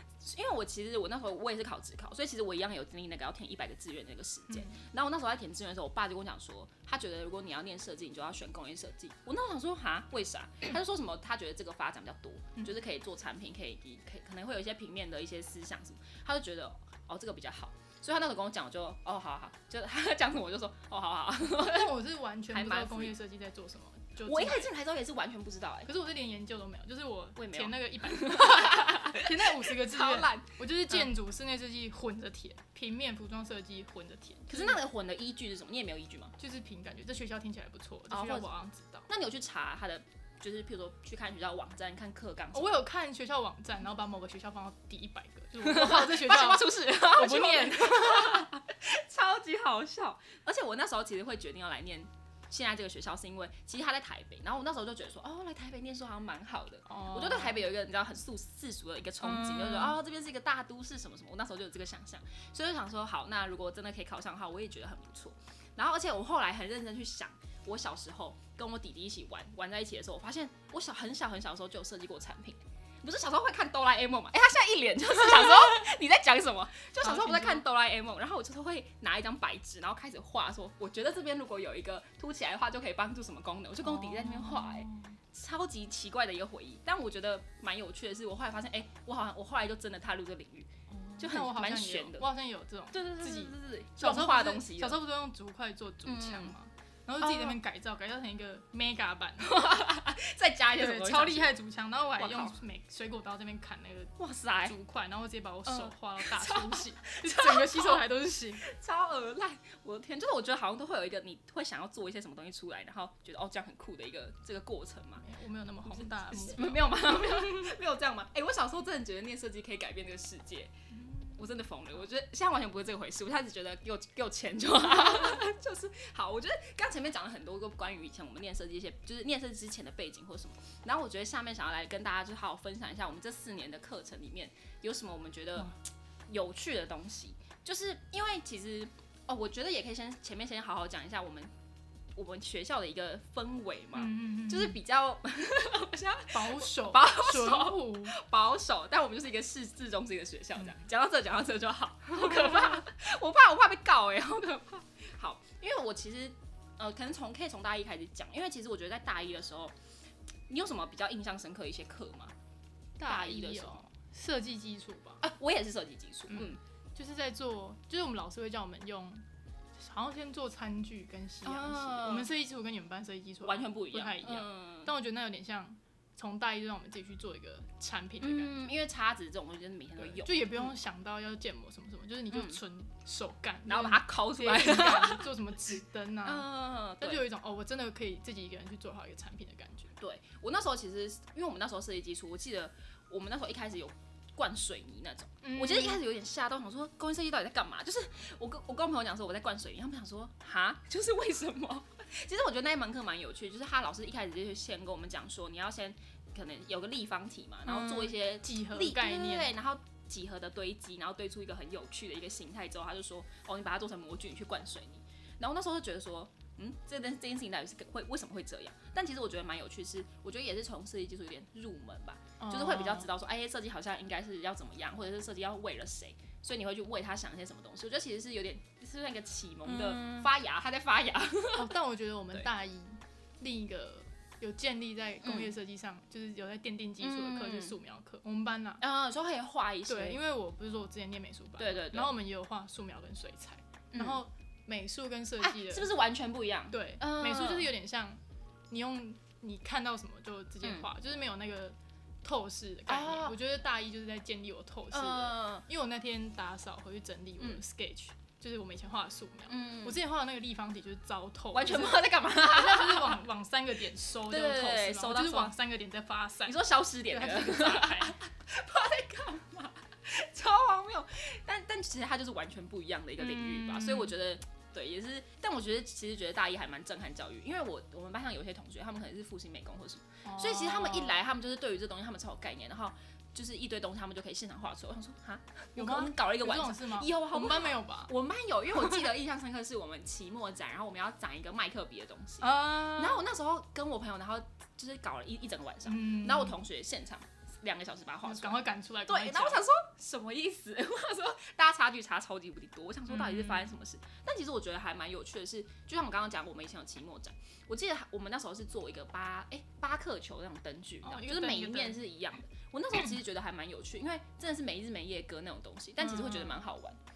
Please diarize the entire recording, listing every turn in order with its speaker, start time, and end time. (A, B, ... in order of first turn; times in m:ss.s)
0:00.2-0:21.9 A
0:04.5-0:04.9 B
0:21.5-0:24.7 B
0:22.5-0:23.2 A
0:24.2-0:25.9 A
0:25.9-0:34.8 B
0:27.4-0:31.1 A
0:34.5-0:36.3 A
0:36.4-0:39.1 B
0:38.1-0:38.5 A
0:39.1-0:42.8 A
0:42.5-0:48.5 B
0:45.6-1:32.3 A
0:56.9-0:57.6 B
0:59.2-1:00.0 B
1:17.0-1:17.6 B
1:23.8-1:25.2 B
1:30.9-1:39.5 B
1:32.9-1:35.0 A
1:36.0-1:36.5 A
1:37.2-1:37.6 A
1:39.4-1:41.6 A
1:40.8-1:48.7 B
1:42.2-1:42.6 A
1:44.2-1:44.8 A
1:45.7-1:48.0 A
1:48.6-1:55.2 A
1:55.2-1:57.6 B
1:55.9-2:00.7 A
2:00.9-2:01.4 B
2:01.4-2:15.8 A
2:16.3-2:21.5 A
2:22.2-2:39.8 A
2:24.0-2:24.8 B
2:26.3-2:28.2 B
2:32.1-2:32.8 B
2:40.5-2:42.3 A
2:43.0-2:45.2 B
2:43.0-2:43.9 A
2:45.2-2:46.6 A
2:46.3-2:49.2 B
2:49.8-2:58.7 B
2:51.4-2:52.3 A
2:53.4-2:54.9 A
2:58.2-3:00.7 A
3:00.0-3:06.5 B
3:02.3-3:02.6 A
3:03.7-3:05.3 A
3:06.2-3:07.2 A
3:07.0-3:09.9 B
3:10.0-3:51.7 A
3:15.4-3:16.0 B
3:27.7-3:29.5 B
3:42.4-3:43.1 B
3:49.7-3:50.3 B
3:51.6-3:58.8 B
3:55.2-3:55.6 A
3:57.0-3:57.8 A
3:58.8-4:00.2 A
3:59.9-4:05.9 B
4:01.6-4:02.2 A
4:03.9-4:04.2 A
4:05.4-4:07.7 A
4:06.7-4:08.2 B
4:08.7-4:28.2 B
4:12.9-4:13.4 A
4:14.9-4:15.6 A
4:19.5-4:20.0 A
4:21.5-4:23.2 A
4:24.3-4:25.5 A
4:26.4-5:17.0 A
4:33.2-4:34.1 B
4:40.2-4:41.2 B
4:45.8-4:48.1 B
4:48.8-4:49.0 B
4:52.4-4:53.3 B
4:55.9-4:56.6 B
4:58.2-4:59.6 B
5:03.1-5:03.7 B
5:11.0-5:12.0 B
5:16.0-5:16.6 B